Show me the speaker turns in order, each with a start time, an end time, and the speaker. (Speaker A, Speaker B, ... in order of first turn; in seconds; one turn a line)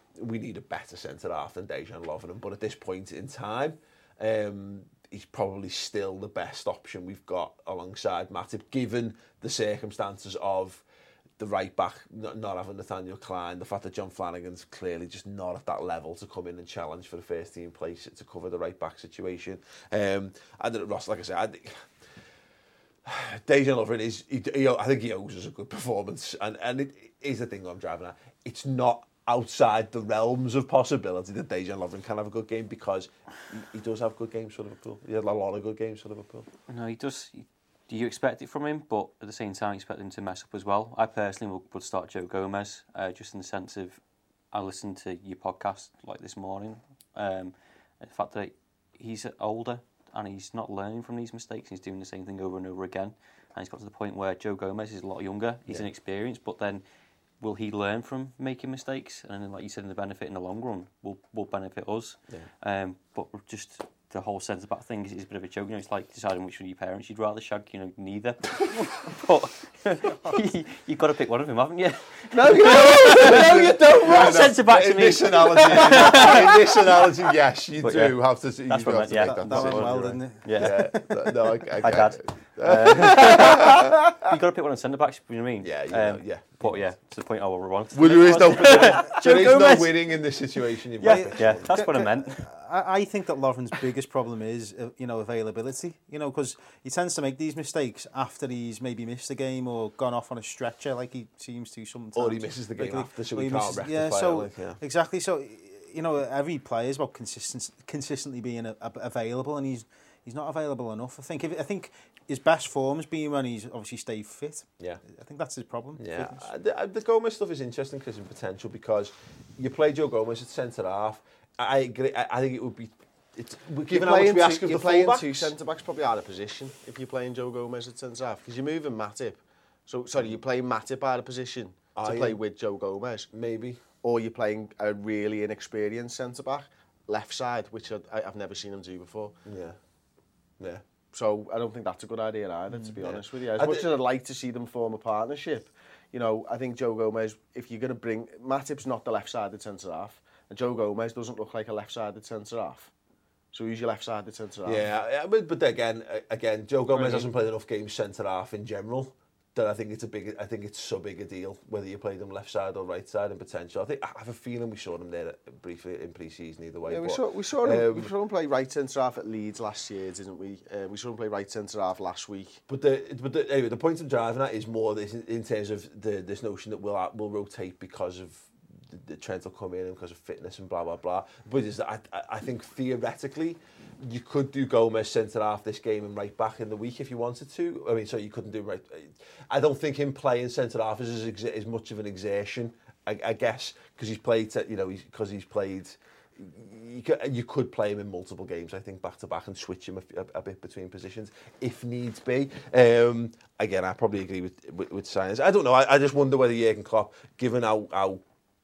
Speaker A: 0.1-10.8
Speaker A: 11.4-21.9
Speaker A: 23.0-36.5
Speaker B: 36.7-44.0
Speaker B: 44.5-56.8
Speaker B: 57.4-77.1
Speaker A: 72.3-83.9
Speaker C: 73.3-73.5
Speaker B: 77.8-81.2
Speaker D: 79.5-81.7
Speaker B: 81.8-90.4
Speaker A: 85.6-86.9
Speaker A: 87.9-91.8
Speaker B: 91.0-92.4
Speaker D: 91.0-116.5
Speaker A: 102.2-104.8
Speaker A: 116.0-125.5
Speaker C: 123.9-133.3
Speaker A: 131.9-132.4
Speaker A: 133.3-133.8
Speaker C: 134.0-139.3
Speaker A: 139.4-139.8
Speaker A: 140.6-140.8
Speaker C: 141.1-152.9
Speaker A: 143.0-143.9
Speaker C: 153.5-154.8
Speaker A: 154.6-168.1
Speaker C: 156.9-157.3
Speaker C: 166.8-172.6
Speaker A: 172.7-208.2